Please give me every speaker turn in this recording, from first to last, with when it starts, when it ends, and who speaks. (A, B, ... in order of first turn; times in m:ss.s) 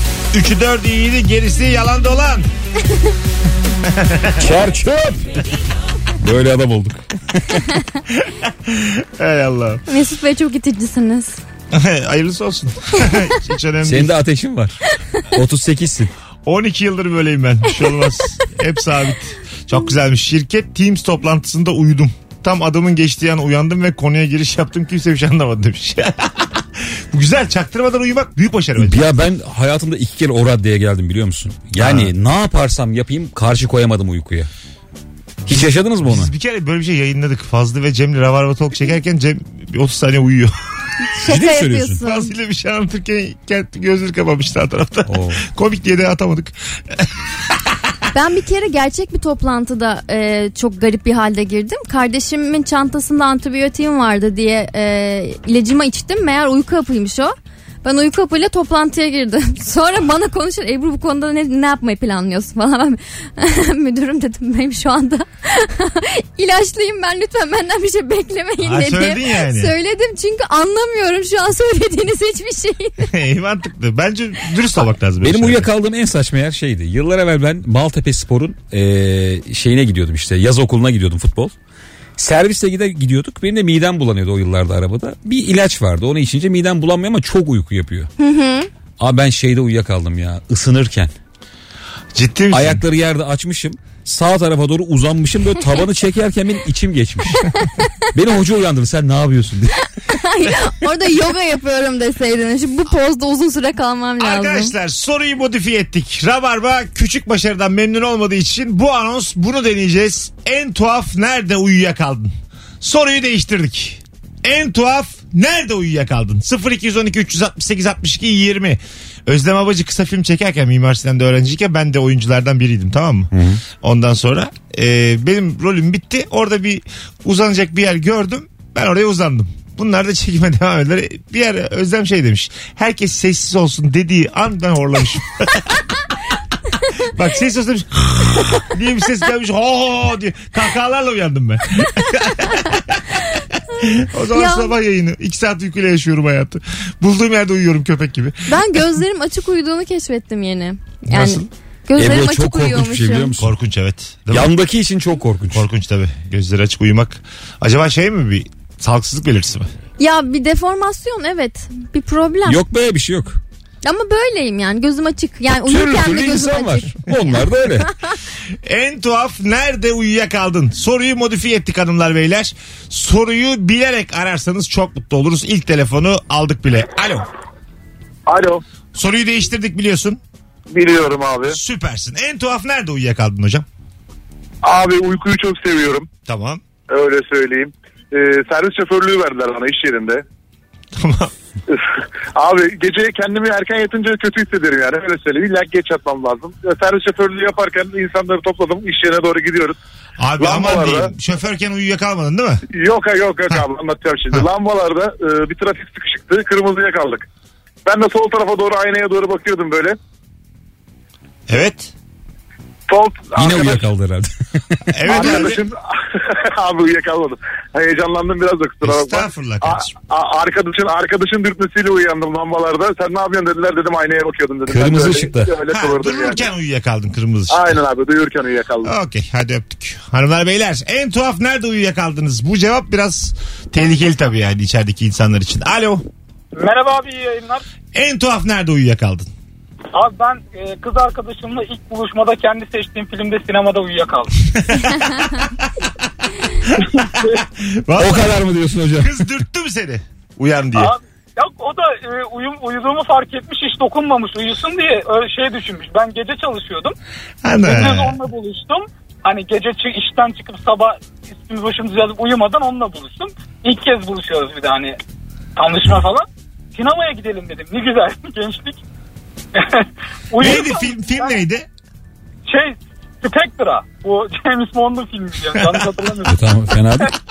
0:00.3-0:02.5 A
0:03.8-0:04.4 A
0:04.4-0:05.4 B
0:06.2-0:07.6 B
0:08.1-0:09.8 A
0:09.9-0:11.4 C
0:11.7-0:14.1 A
0:13.8-0:14.8 B
0:15.3-0:16.1 B
0:16.4-0:29.1 A
0:28.8-0:34.5 B
0:31.8-0:32.1 A
0:35.4-0:36.3 B
0:35.5-0:40.5 A
0:41.2-0:42.3 C
0:41.2-0:42.0 B
0:42.0-0:47.1 A
0:45.1-0:45.4 B
0:48.1-1:13.1 C
1:08.6-1:09.7 A
1:13.0-1:15.7 A
1:15.2-1:21.5 B
1:22.2-1:28.1 B
1:28.2-1:28.7 C
1:29.0-1:31.1 B
1:32.1-1:32.8 A
1:32.5-1:37.4 B
1:38.1-1:39.8 B
1:40.1-1:44.7 C
1:44.2-2:15.8 A
2:03.3-2:03.6 B
2:17.0-2:23.1 A
2:23.8-2:28.6 A
2:24.3-2:24.7 C
2:28.5-2:33.3 C
2:31.1-2:31.5 A
2:32.0-2:33.5 B
2:33.4-2:34.6 A
2:34.3-2:35.6 B
2:35.5-2:39.7 A
2:40.0-2:42.6 C
2:42.4-2:43.4 B
2:43.8-2:47.4 C
2:45.6-2:47.9 B
2:48.6-2:57.3 A
2:58.3-2:58.6 D
2:58.9-3:00.2 A
3:00.7-3:01.6 D
3:01.4-3:03.6 A
3:04.6-3:06.1 D
3:06.2-3:06.6 A
3:06.9-3:10.2 D
3:10.9-3:11.3 A
3:12.3-3:19.8 D
3:20.2-3:22.6 A
3:20.4-3:21.1 D
3:22.7-3:27.2 D
3:27.8-3:30.0 D
3:31.5-3:31.9 A
3:32.9-3:33.9 D
3:33.4-3:35.3 B
3:34.9-3:35.6 A
3:35.1-3:46.5 D
3:38.8-3:39.9 A
3:44.7-3:45.5 B
3:45.7-3:47.8 A
3:47.5-3:48.9 D
3:48.8-3:56.0 A
3:56.6-3:57.6 E
3:57.9-3:59.3 A
3:59.9-4:04.3 E
4:04.6-4:05.3 A
4:07.6-4:08.3 A
4:08.0-4:09.2 B
4:09.0-4:10.9 A
4:10.7-4:17.0 E
4:17.4-4:18.2 A
4:17.6-4:25.0 E
4:25.6-4:28.8 E
4:29.5-4:31.4 E
4:30.4-4:31.6 A
4:32.5-4:36.4 E
4:36.2-4:37.1 B